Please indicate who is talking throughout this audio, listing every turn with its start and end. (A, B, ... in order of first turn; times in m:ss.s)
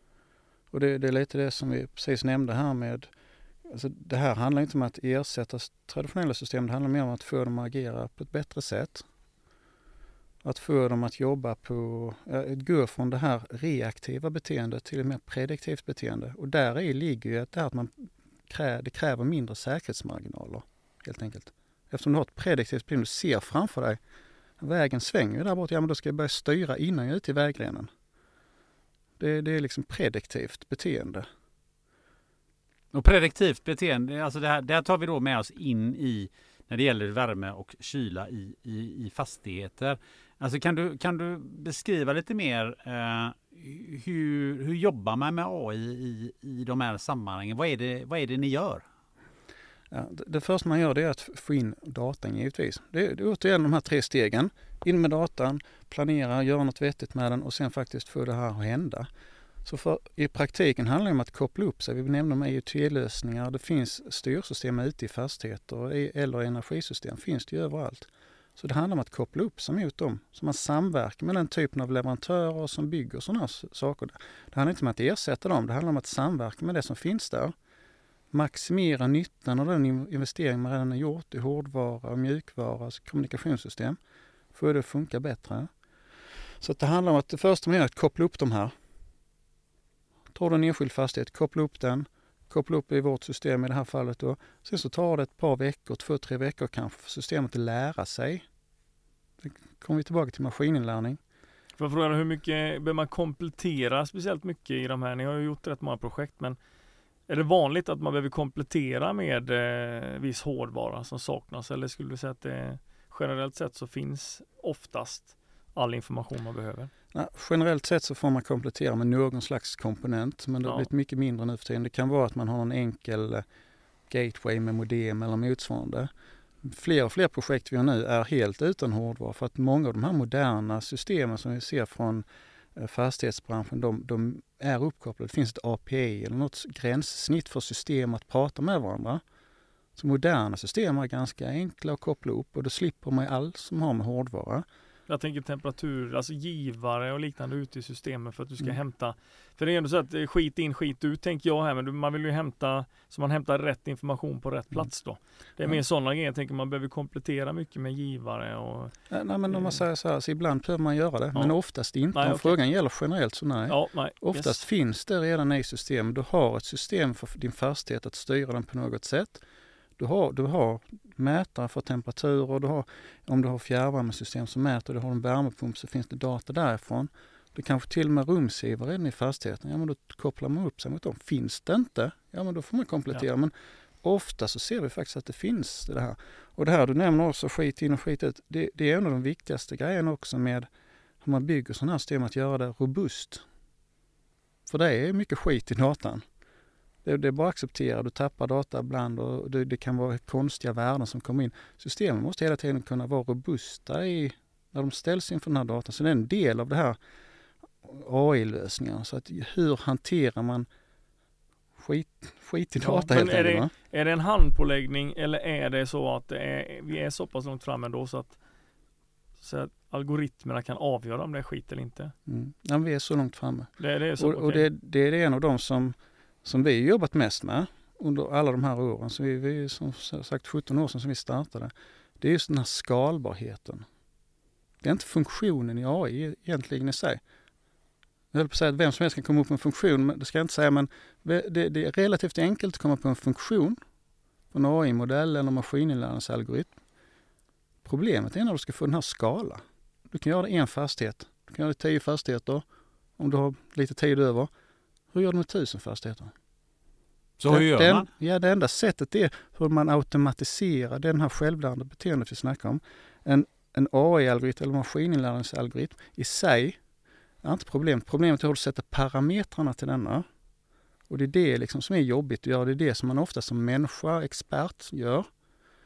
0:00.7-0:03.1 A
0:03.7-0:09.0 A
0:10.4-0:24.0 A
0:24.6-0:27.9 A
0:29.2-0:31.2 A
0:32.9-0:48.8 B
0:49.9-0:59.1 A
0:59.6-1:17.5 A
1:18.3-1:24.0 A
1:24.5-1:25.7 A
1:26.6-1:28.7 A
1:30.3-1:38.4 A
1:39.4-1:41.2 A
1:41.8-1:46.6 C
1:47.3-1:56.9 C
1:57.1-2:03.4 A
2:04.1-2:06.1 A
2:06.6-2:19.2 A
2:20.0-2:24.6 A
2:25.1-2:38.9 C
2:39.1-2:49.4 A
2:39.5-2:39.8 C
2:42.1-2:42.5 C
2:43.7-2:44.6 C
2:50.0-3:10.7 A
3:11.2-3:13.4 A
3:14.7-3:16.2 A
3:17.0-3:27.0 A
3:27.8-3:30.7 A
3:31.8-3:33.7 A
3:32.8-3:38.4 C
3:39.4-3:42.1 C
3:42.3-3:53.8 A
3:43.8-3:44.6 C
3:54.8-3:57.2 A
3:58.3-4:03.8 A
4:04.5-4:06.8 A
4:07.8-4:12.6 A
4:13.2-4:14.5 A
4:15.1-4:16.3 A
4:17.4-4:18.1 B
4:17.5-4:26.8 A
4:27.4-4:30.2 A
4:31.1-4:35.3 A